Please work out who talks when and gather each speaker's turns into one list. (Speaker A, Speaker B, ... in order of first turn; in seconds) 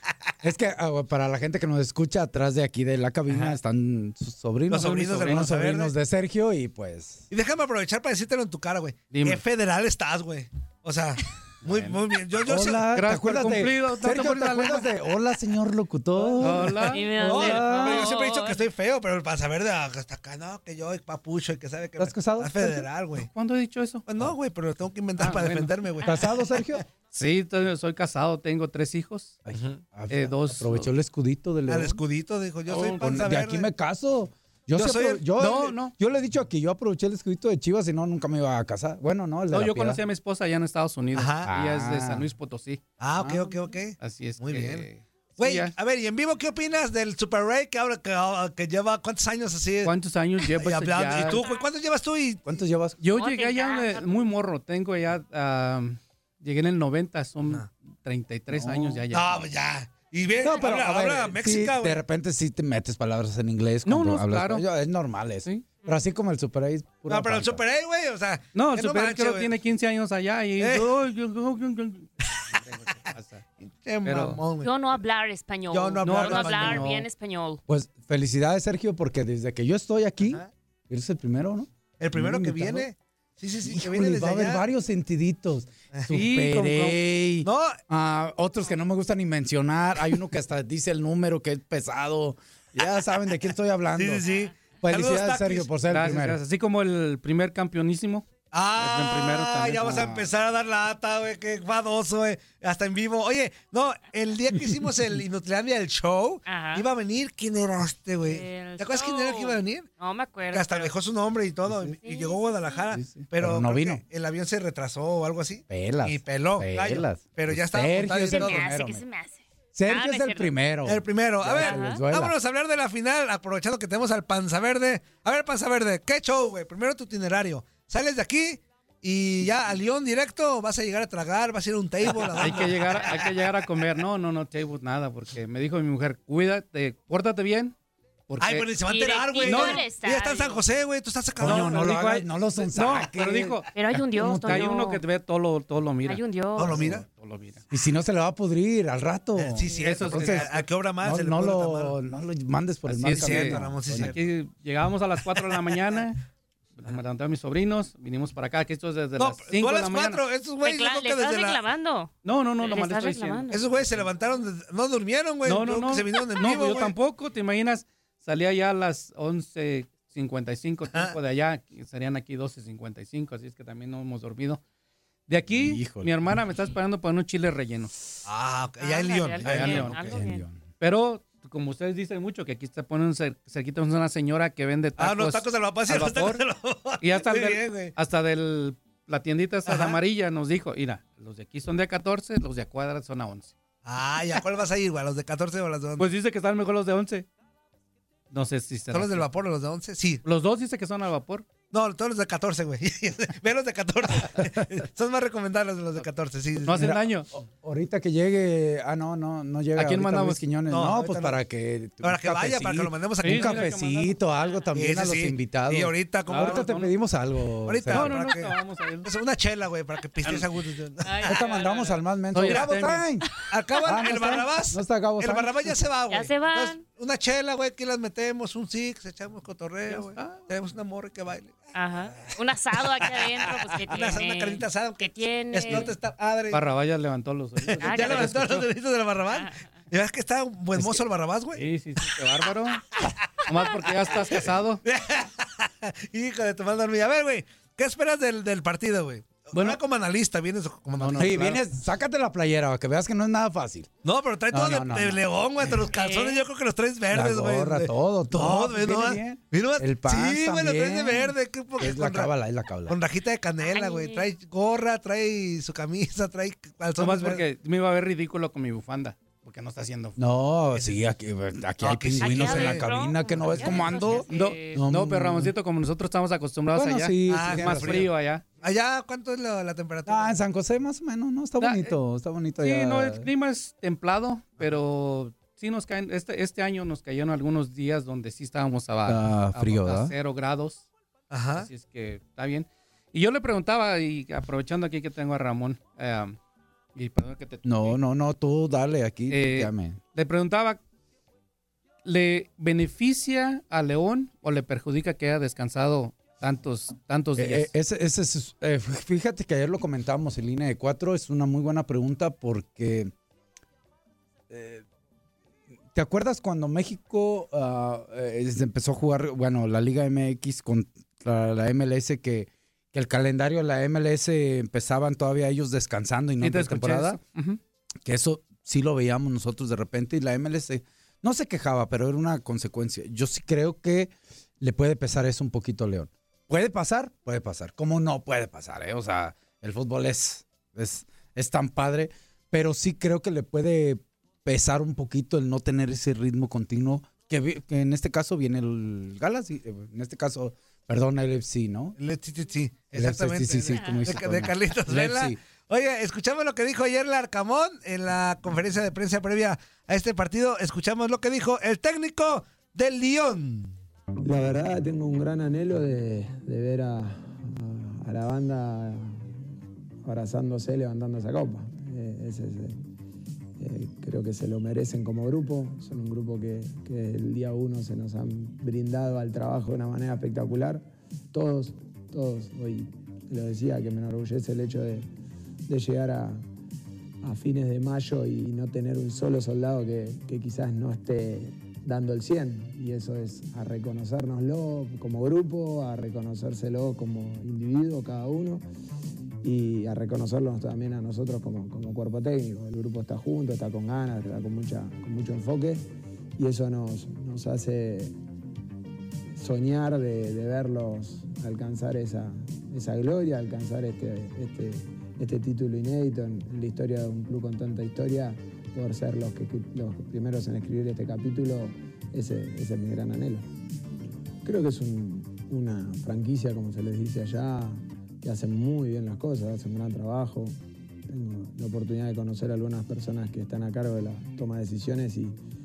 Speaker A: 0.4-7.3, 12.4-18.1, 22.0-22.9, 26.0-26.8, 29.5-32.0, 32.9-40.0, 41.5-42.2, 43.2-43.4, 52.5-53.0, 58.5-59.0, 60.4-67.6, 77.7-82.9, 83.6-94.2, 94.8-96.4, 112.9-114.0, 115.7-119.0, 119.7-122.3, 141.4-144.7, 147.7-154.2, 175.5-176.1, 179.9-180.6, 206.7-218.2, 221.2-223.3, 223.8-225.8, 251.2-253.9, 254.5-255.2, 257.1-263.0, 270.2-275.5, 276.7-278.1, 280.1-283.3, 289.1-290.1, 297.6-300.0, 307.4-313.1, 314.5-314.8, 315.9-327.2, 328.1-352.0, 352.9-355.4
Speaker B: 4.7-5.9, 7.3-12.9, 16.6-23.3, 24.1-26.2, 31.7-33.7, 34.8-35.7, 41.1-41.5, 43.0-44.9, 45.4-49.9, 50.5-52.5, 59.1-62.0, 67.1-69.5, 70.6-70.9, 73.8-74.7, 75.7-76.9, 82.0-84.6, 87.5-87.8, 94.0-95.7, 98.5-109.9, 110.5-118.7, 120.8-133.3, 138.4-141.9, 146.6-147.1, 149.4-151.9, 153.1-154.2, 159.2-161.6, 163.5-166.9, 178.3-179.9, 185.0-187.9, 189.7-190.0, 193.8-196.1, 198.9-200.2, 201.7-206.9, 210.7-211.4, 212.0-213.7, 214.8-216.7, 217.7-221.4, 222.4-222.7, 223.5-232.4, 233.0-236.6, 237.7-241.6, 244.8-251.6, 254.0-262.3, 262.9-267.4, 270.8-271.0, 271.8-272.9, 277.3-278.1, 278.6-280.4, 291.3-291.7, 352.0-363.7
Speaker C: 9.1-9.4, 11.6-12.0, 12.9-14.9, 16.4-17.1, 23.2-24.1, 25.2-25.8, 27.1-29.4, 30.1-30.9, 32.7-33.3, 35.4-35.9, 39.5-42.8, 44.0-45.7, 49.9-51.5, 53.0-59.4, 63.9-64.7, 68.5-73.5, 74.0-74.4, 76.0-77.1, 86.1-87.0, 95.9-100.2, 132.1-137.8, 138.3-138.8, 139.4-139.9, 141.4-147.6, 149.8-150.7, 152.9-156.2, 156.8-160.2, 162.2-164.1, 165.4-174.6, 175.3-178.0, 179.4-180.2, 180.8-186.4, 187.0-193.6, 196.0-197.3, 198.3-199.3, 200.2-201.5, 206.7-207.3, 209.8-210.4, 213.2-214.2, 216.3-216.9, 217.9-219.1, 222.3-223.1, 229.9-230.5, 236.5-238.7, 241.5-242.9, 243.5-244.8, 249.5-249.8, 251.0-251.6, 267.0-270.2, 273.6-278.4, 281.6-282.0, 282.6-290.8, 291.6-296.4, 296.9-298.0, 299.3-300.8, 302.1-307.7, 326.4-327.6
Speaker D: 16.9-18.6, 53.1-54.3, 60.5-60.8, 74.6-77.6, 106.5-106.9, 108.2-110.9, 112.0-112.9, 118.2-120.6, 121.5-122.0, 138.8-140.7, 143.7-145.0, 146.1-146.9, 160.6-163.7, 178.8-180.4, 221.0-222.0, 226.1-226.8, 231.7-236.0, 237.8-238.5, 239.3-239.6, 255.8-256.5, 263.6-264.3, 272.2-274.9, 353.7-354.1
Speaker E: 364.2-369.4, 370.1-372.8, 373.6-385.1, 385.7-386.4, 387.2-398.6, 399.4-408.1, 409.4-423.5, 424.4-430.6, 431.1-435.4